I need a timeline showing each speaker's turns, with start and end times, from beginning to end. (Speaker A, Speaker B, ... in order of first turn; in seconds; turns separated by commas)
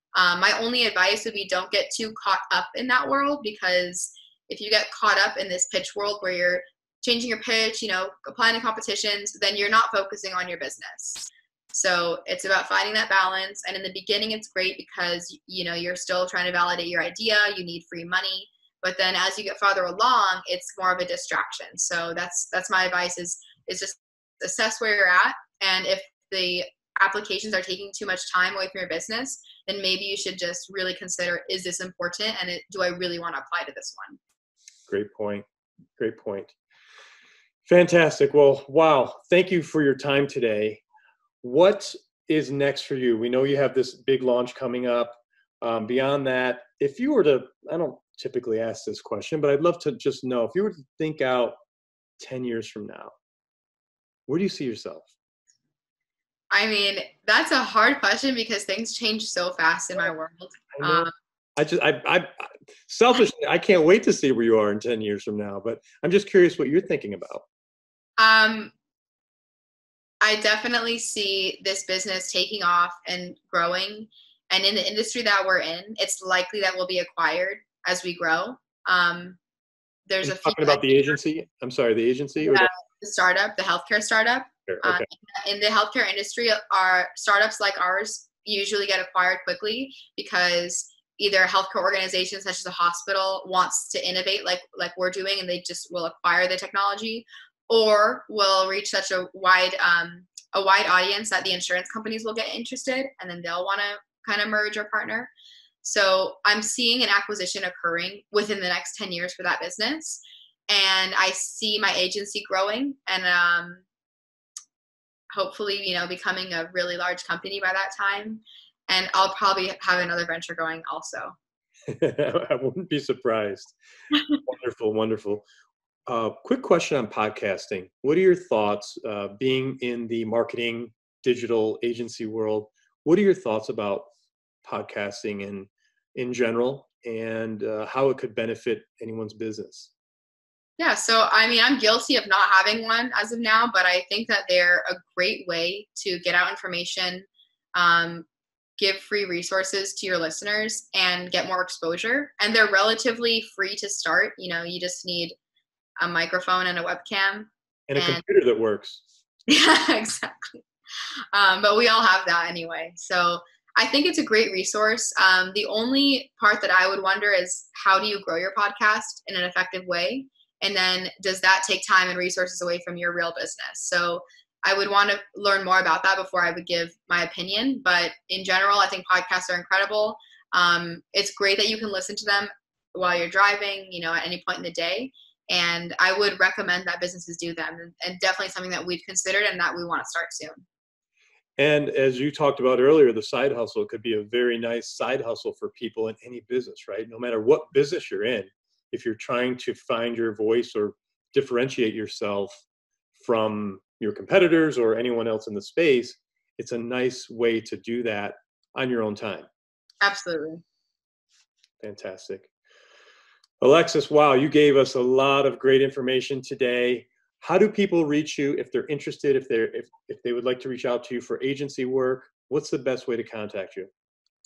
Speaker A: 0.1-34.2, Speaker B: 34.9-35.4, Speaker B: 36.0-36.5, Speaker B: 37.6-40.8, Speaker B: 41.4-51.6, Speaker B: 52.2-53.1, Speaker B: 54.3-55.1, Speaker A: 56.5-61.1, Speaker B: 60.7-67.4, Speaker A: 68.2-68.7, Speaker A: 70.2-79.4, Speaker A: 80.1-81.1, Speaker B: 80.2-82.7, Speaker A: 82.4-105.3, Speaker B: 84.7-85.0, Speaker A: 105.8-113.8, Speaker A: 115.3-121.3, Speaker B: 121.9-123.7, Speaker B: 124.4-125.4, Speaker B: 126.1-134.1, Speaker B: 134.6-139.9, Speaker A: 140.8-148.2, Speaker A: 148.8-155.3, Speaker A: 156.0-158.2, Speaker B: 157.9-159.0, Speaker A: 159.5-160.6, Speaker A: 161.3-190.6, Speaker B: 191.6-202.6, Speaker B: 203.2-209.5, Speaker A: 210.0-210.6, Speaker B: 211.8-212.5, Speaker B: 213.6-223.9